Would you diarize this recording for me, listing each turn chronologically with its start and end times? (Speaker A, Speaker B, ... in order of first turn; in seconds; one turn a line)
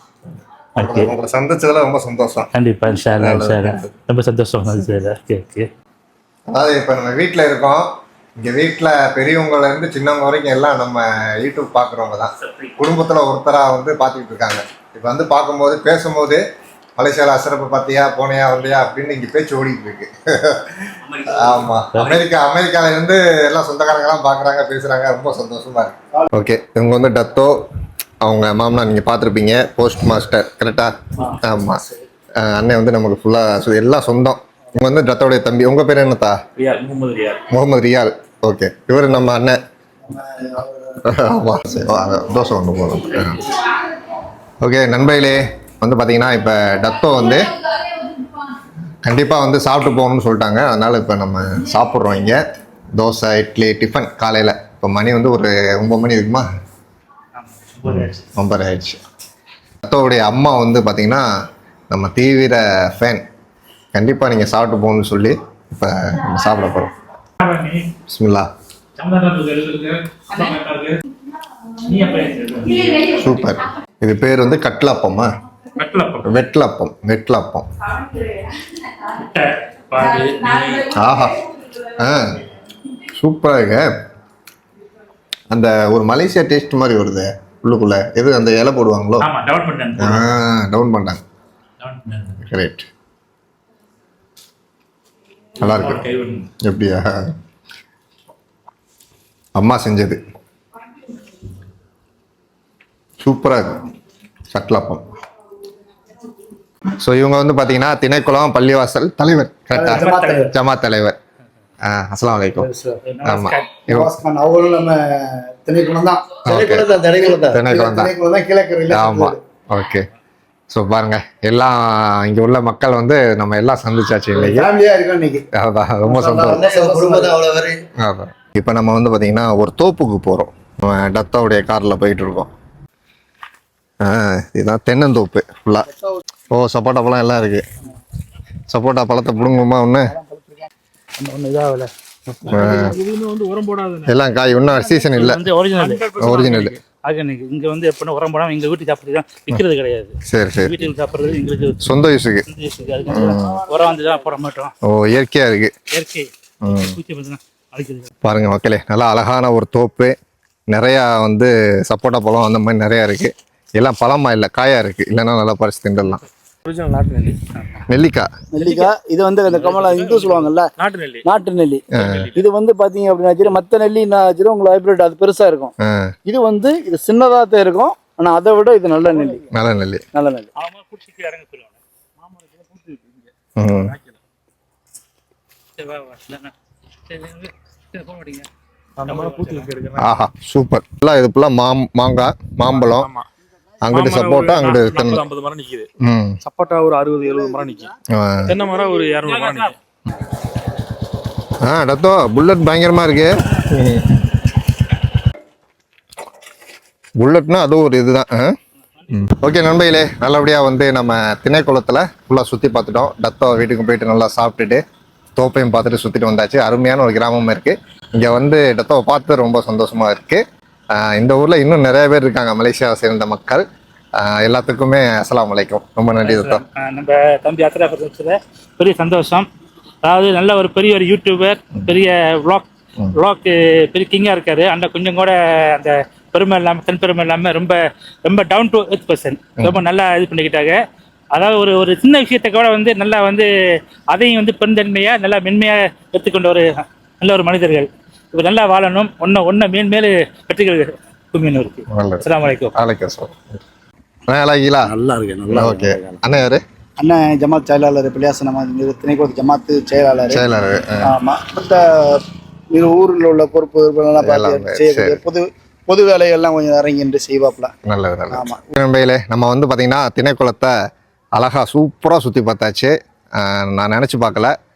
Speaker A: 0.8-1.1
Speaker B: 0.8-2.5
Speaker A: 2.5-5.7
Speaker B: 3.2-3.9
Speaker B: 6.5-16.4
Speaker A: 12.4-12.7
Speaker B: 17.0-27.7
Speaker A: 21.4-22.2
Speaker B: 28.2-31.8
Speaker B: 32.4-36.4
Speaker A: 36.6-37.2
Speaker C: 36.7-37.4
Speaker B: 37.5-39.6
Speaker D: 40.1-41.0
Speaker B: 41.0-43.4
Speaker B: 44.6-47.6
Speaker B: 49.0-52.4
Speaker B: 52.9-56.5
Speaker A: 57.4-58.2
Speaker B: 57.8-59.0
Speaker B: 59.8-61.3
Speaker B: 61.9-63.2
Speaker B: 63.9-66.9
Speaker A: 67.4-67.9
Speaker B: 68.1-68.5
Speaker A: 69.0-71.0
Speaker A: 71.9-73.3
Speaker B: 73.1-75.3
Speaker A: 75.8-76.4
Speaker B: 76.2-77.7
Speaker A: 79.1-80.9
Speaker B: 80.9-81.4
Speaker B: 82.0-82.5
Speaker B: 83.1-83.9
Speaker B: 85.5-89.3
Speaker A: 89.2-90.3
Speaker B: 90.0-91.2
Speaker A: 91.8-92.4
Speaker B: 92.4-92.8
Speaker B: 95.6-96.0
Speaker A: 95.6-96.5
Speaker B: 96.6-97.3
Speaker B: 99.5-100.2
Speaker B: 103.2-103.9
Speaker B: 104.5-105.0
Speaker B: 107.0-111.2
Speaker D: 109.7-110.5
Speaker A: 109.9-110.5
Speaker B: 111.8-112.7
Speaker D: 112.6-113.0
Speaker A: 113.0-113.8
Speaker B: 113.2-114.1
Speaker D: 113.9-119.4
Speaker B: 116.4-118.1
Speaker B: 118.9-120.1
Speaker B: 120.7-124.7
Speaker D: 124.3-125.4
Speaker B: 125.5-126.8
Speaker D: 126.1-127.7
Speaker E: 126.7-127.6
Speaker B: 127.9-132.5
Speaker B: 134.0-135.9
Speaker B: 136.5-137.7
Speaker B: 138.7-140.1
Speaker A: 141.2-142.7
Speaker C: 142.4-144.1
Speaker B: 142.5-143.0
Speaker B: 144.1-145.4
Speaker A: 144.9-151.9
Speaker C: 145.8-146.7
Speaker B: 146.2-146.8
Speaker B: 150.2-150.7
Speaker B: 151.8-152.4
Speaker A: 152.5-154.7
Speaker B: 153.1-153.6
Speaker B: 154.8-155.7
Speaker A: 155.9-158.1
Speaker B: 156.6-157.0
Speaker B: 158.2-160.2
Speaker B: 160.7-166.2
Speaker C: 166.6-167.4
Speaker B: 167.9-168.3
Speaker D: 168.5-170.7
Speaker C: 168.6-168.9
Speaker C: 169.5-171.2
Speaker D: 171.2-175.7
Speaker B: 171.9-172.3
Speaker B: 175.8-176.1
Speaker D: 176.3-179.4
Speaker B: 179.5-180.0
Speaker D: 180.1-180.5
Speaker A: 180.6-181.7
Speaker C: 182.2-184.2
Speaker B: 183.6-183.9
Speaker A: 185.8-186.5
Speaker A: 187.1-188.5
Speaker C: 189.0-190.1
Speaker A: 189.0-189.7
Speaker B: 189.9-193.1
Speaker C: 192.7-193.2
Speaker B: 193.8-195.3
Speaker C: 193.9-195.9
Speaker B: 196.0-196.4
Speaker C: 196.4-197.9
Speaker B: 198.1-198.6
Speaker C: 198.4-199.7
Speaker A: 199.2-199.7
Speaker B: 201.6-204.3
Speaker B: 207.2-208.6
Speaker B: 209.1-214.8
Speaker B: 215.3-223.6
Speaker B: 224.2-226.6
Speaker A: 226.2-229.5
Speaker A: 230.0-240.8
Speaker A: 241.3-243.5
Speaker A: 244.1-252.8
Speaker B: 251.9-253.6
Speaker B: 254.3-254.9
Speaker E: 254.8-256.2
Speaker B: 255.5-256.6
Speaker D: 257.0-260.4
Speaker B: 260.3-261.1
Speaker D: 261.0-267.7
Speaker B: 264.2-265.2
Speaker B: 267.8-270.7
Speaker D: 268.3-268.7
Speaker B: 271.3-274.5